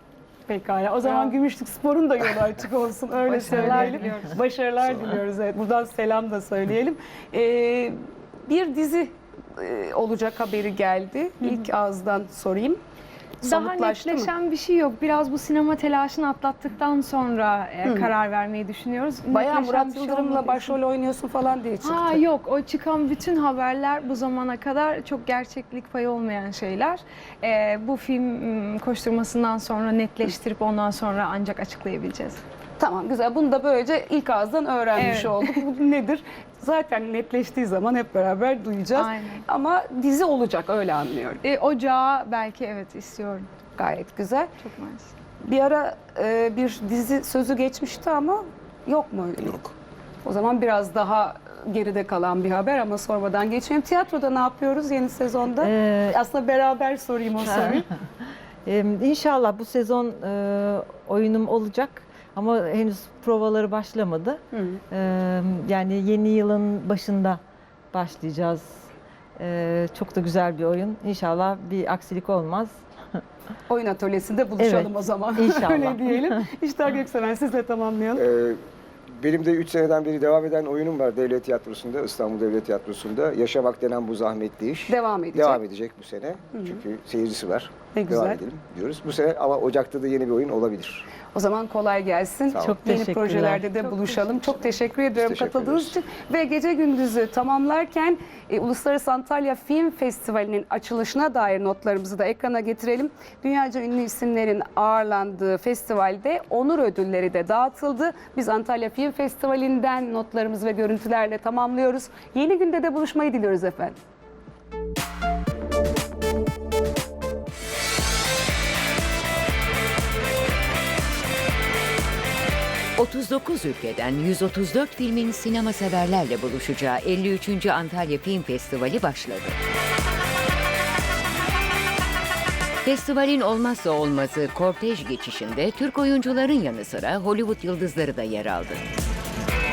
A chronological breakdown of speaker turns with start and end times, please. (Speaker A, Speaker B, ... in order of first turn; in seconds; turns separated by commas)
Speaker A: 0.5-8.0, Speaker B: 1.0-1.3, Speaker B: 3.3-4.3, Speaker C: 3.4-4.0, Speaker A: 8.5-12.8, Speaker B: 13.4-20.8, Speaker A: 13.4-14.3, Speaker A: 17.8-18.1, Speaker A: 19.3-22.2, Speaker B: 21.8-32.4, Speaker A: 32.8-41.4, Speaker B: 35.0-35.5, Speaker B: 38.9-39.4, Speaker B: 41.4-43.5, Speaker A: 43.8-44.5, Speaker B: 44.6-45.1, Speaker A: 45.4-49.7, Speaker A: 50.2-57.9, Speaker C: 55.6-56.2, Speaker C: 57.5-57.8, Speaker C: 58.6-67.4, Speaker A: 64.5-64.8, Speaker C: 67.9-68.7, Speaker C: 69.4-72.8, Speaker A: 73.7-78.2, Speaker C: 74.6-76.4, Speaker D: 78.1-78.6, Speaker D: 79.2-91.0, Speaker A: 84.9-85.6, Speaker A: 86.5-86.8, Speaker A: 87.9-88.5, Speaker A: 91.2-114.0, Speaker C: 92.6-93.7, Speaker D: 95.2-95.9, Speaker E: 123.0-129.5, Speaker E: 132.8-138.8